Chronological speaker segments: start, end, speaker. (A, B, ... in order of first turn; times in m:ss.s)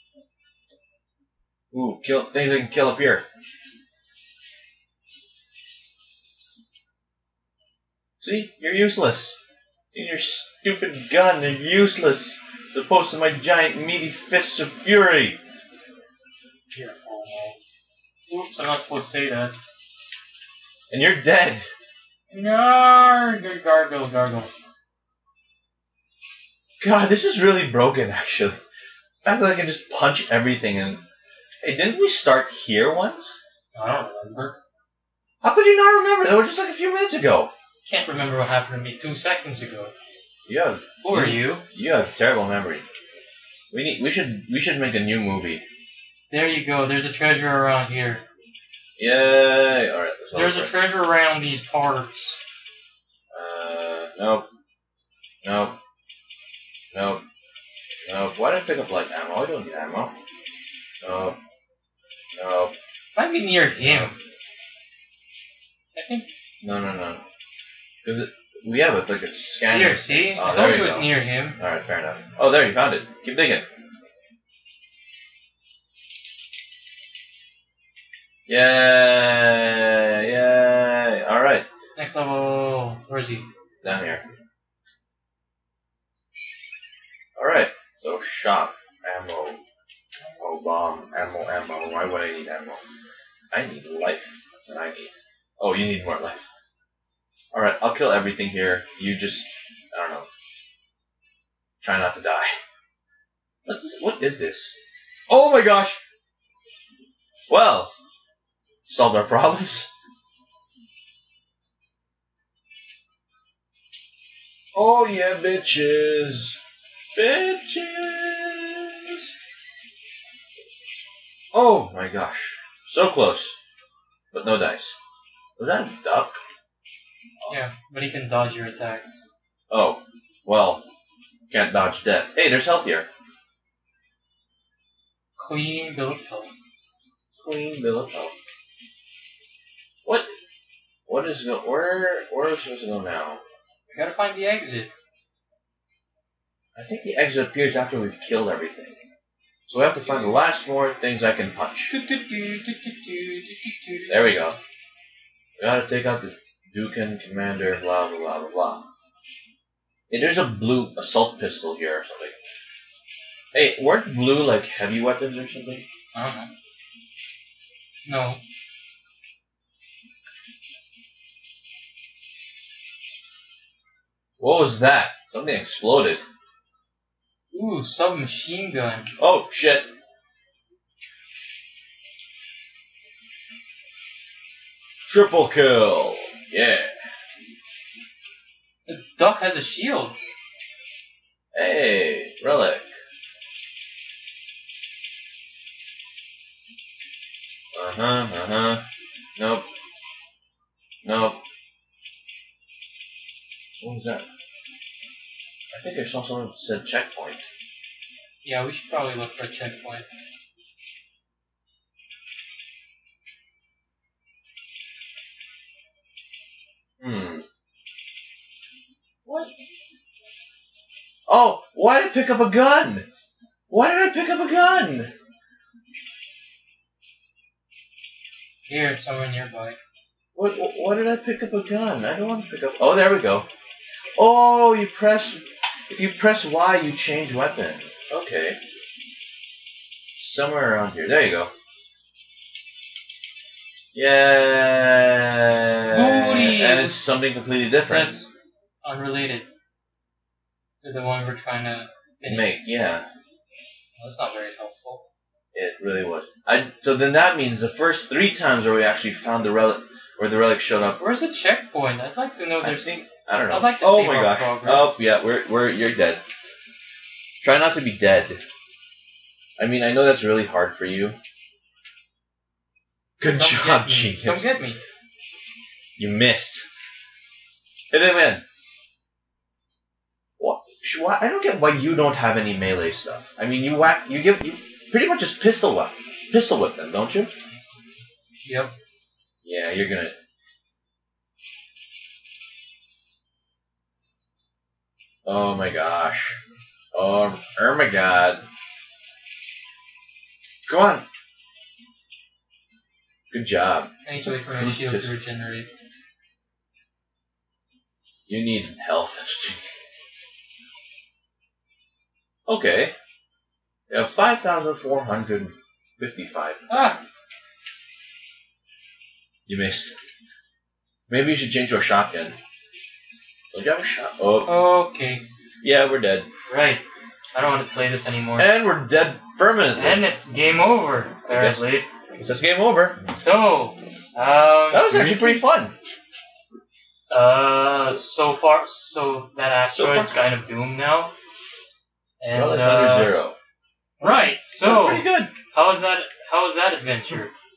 0:01.7-0:03.2 A
0:08.2-0:09.4 A
0:09.9-0:15.4 A
0:16.7-0:17.6 B
0:18.3-0:19.6 B
0:20.9-0:21.7 A
0:22.3-0:24.5 B
0:26.8-0:28.6 A
0:29.2-0:31.0 A
0:31.6-0:33.4 A
0:33.7-0:34.6 B
0:35.4-0:37.5 A
0:37.8-0:39.9 B
0:40.5-0:42.8 A
0:41.0-0:41.6 B
0:43.7-0:45.6 A
0:46.3-0:48.2 B
0:49.0-0:50.7 A
0:50.3-0:52.4 B
0:53.3-0:54.5 A
0:55.4-0:55.8 A
0:56.9-0:57.2 A
0:58.1-1:00.2 A
1:01.0-1:01.4 A
1:02.4-1:02.7 A
1:03.2-1:04.2 B
1:03.8-1:04.1 A
1:06.0-1:06.3 B
1:06.6-1:07.2 A
1:08.0-1:13.7 A
1:09.7-1:11.6 B
1:18.5-1:21.7 A
1:22.0-1:23.5 B
1:23.8-1:24.2 A
1:27.4-1:29.6 A
1:30.4-1:32.8 A
1:33.5-1:36.5 A
1:37.5-1:40.3 A
1:41.8-1:42.5 A
1:43.7-1:44.8 A
1:45.3-1:46.0 A
1:47.5-1:47.9 A
1:48.8-1:49.9 A
1:54.7-1:56.6 A
1:57.1-1:59.3 A
2:01.5-2:03.6 A
2:04.3-2:05.0 A
2:05.6-2:06.4 A
2:07.5-2:09.2 B
2:09.7-2:10.9 A
2:11.5-2:13.1 A
2:15.4-2:16.5 B
2:17.4-2:18.4 A
2:20.0-2:20.3 A
2:21.1-2:23.4 A
2:23.9-2:24.9 B
2:26.8-2:29.0 A
2:29.7-2:31.9 A
2:30.0-2:30.3 B
2:31.9-2:34.6 B
2:34.1-2:34.6 A
2:35.6-2:38.9 A
2:40.1-2:42.4 A
2:43.5-2:45.9 A
2:46.1-2:46.5 B
2:48.1-2:48.4 B
2:54.4-2:56.2 A
2:57.5-2:59.1 B
2:59.2-2:59.9 A
3:05.1-3:07.0 A
3:08.9-3:10.2 B
3:11.5-3:12.9 A
3:17.7-3:18.8 A
3:19.4-3:19.7 A
3:21.0-3:21.4 A
3:23.8-3:24.3 A
3:25.7-3:27.4 A
3:28.4-3:30.1 B
3:37.0-3:37.5 A
3:41.3-3:43.1 A
3:43.7-3:45.1 A
3:48.7-3:49.8 B
3:50.4-3:53.5 A
3:54.2-3:58.6 A
4:00.2-4:01.5 A
4:03.9-4:08.2 A
4:05.9-4:07.0 B
4:07.9-4:09.5 B
4:10.8-4:12.6 B
4:12.2-4:13.1 A
4:14.0-4:15.0 B
4:15.5-4:21.0 A
4:21.0-4:22.9 B
4:22.6-4:26.2 A
4:23.5-4:25.0 B
4:27.4-4:28.4 A
4:29.6-4:31.2 A
4:33.2-4:34.5 A
4:33.3-4:34.8 B
4:36.0-4:36.6 A
4:37.9-4:38.4 A
4:40.4-4:47.3 A
4:48.4-4:48.7 B
4:49.4-4:50.2 A
4:55.2-4:56.4 A
4:56.9-4:58.4 A
5:00.7-5:01.0 A
5:03.3-5:05.1 A
5:04.0-5:05.7 B
5:08.3-5:09.7 A
5:12.5-5:12.9 A
5:13.9-5:16.9 A
5:16.7-5:17.1 B
5:19.5-5:20.0 A
5:21.1-5:22.4 A
5:23.5-5:24.6 A
5:24.5-5:25.2 B
5:25.6-5:26.3 A
5:26.5-5:28.5 B
5:28.4-5:30.1 A
5:29.8-5:31.9 B
5:31.3-5:33.0 A
5:33.1-5:35.5 B
5:34.7-5:35.8 A
5:37.1-5:41.1 B
5:39.7-5:40.2 A
5:42.2-5:43.1 B
5:42.3-5:43.4 A
5:44.0-5:47.3 B
5:44.0-5:45.3 A